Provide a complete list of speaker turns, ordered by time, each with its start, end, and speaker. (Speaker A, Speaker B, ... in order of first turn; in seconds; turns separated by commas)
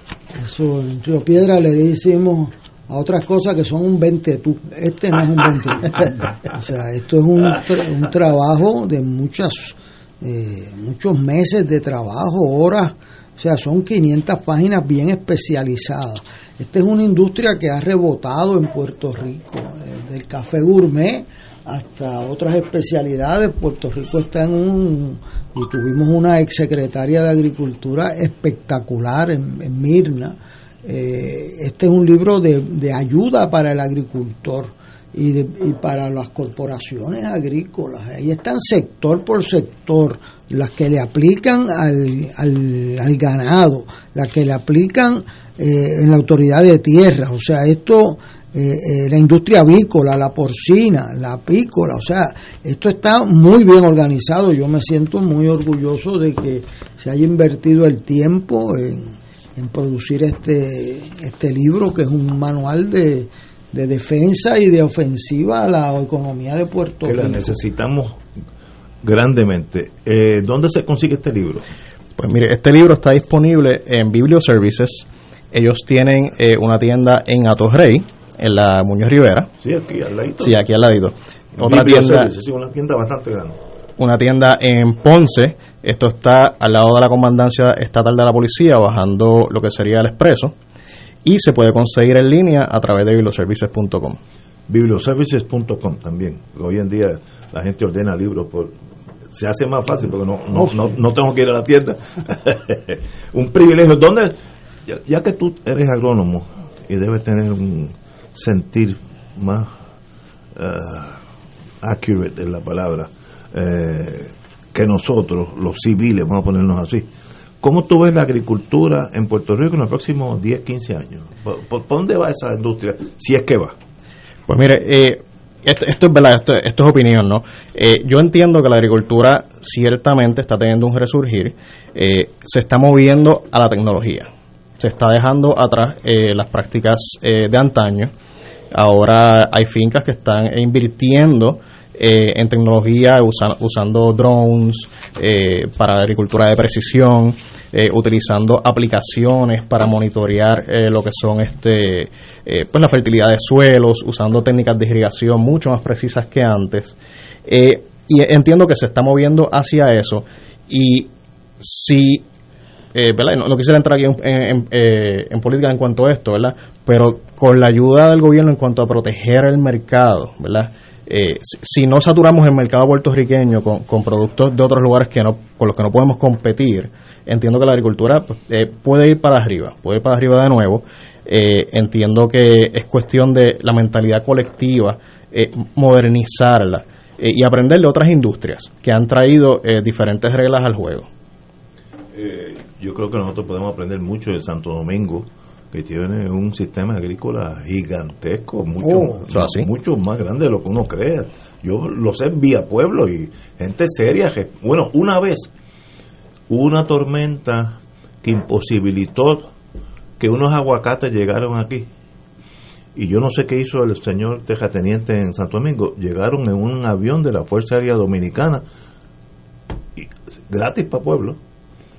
Speaker A: 0.3-67.6, Speaker B: 67.0-68.2, Speaker B: 69.0-71.6, Speaker C: 72.2-79.5, Speaker B: 79.6-80.5, Speaker C: 80.4-82.3, Speaker B: 81.6-83.6, Speaker C: 84.0-90.5, Speaker C: 91.2-94.2, Speaker B: 94.7-98.8, Speaker B: 99.3-109.7, Speaker B: 110.5-111.2, Speaker B: 111.8-117.1, Speaker B: 117.6-123.7, Speaker C: 124.5-134.3, Speaker C: 134.8-138.1, Speaker C: 138.7-156.9, Speaker C: 157.5-162.2, Speaker C: 162.9-191.1, Speaker B: 192.1-205.5, Speaker C: 199.2-199.7, Speaker B: 206.5-209.5, Speaker B: 210.2-211.9, Speaker B: 212.9-218.6, Speaker B: 220.0-221.4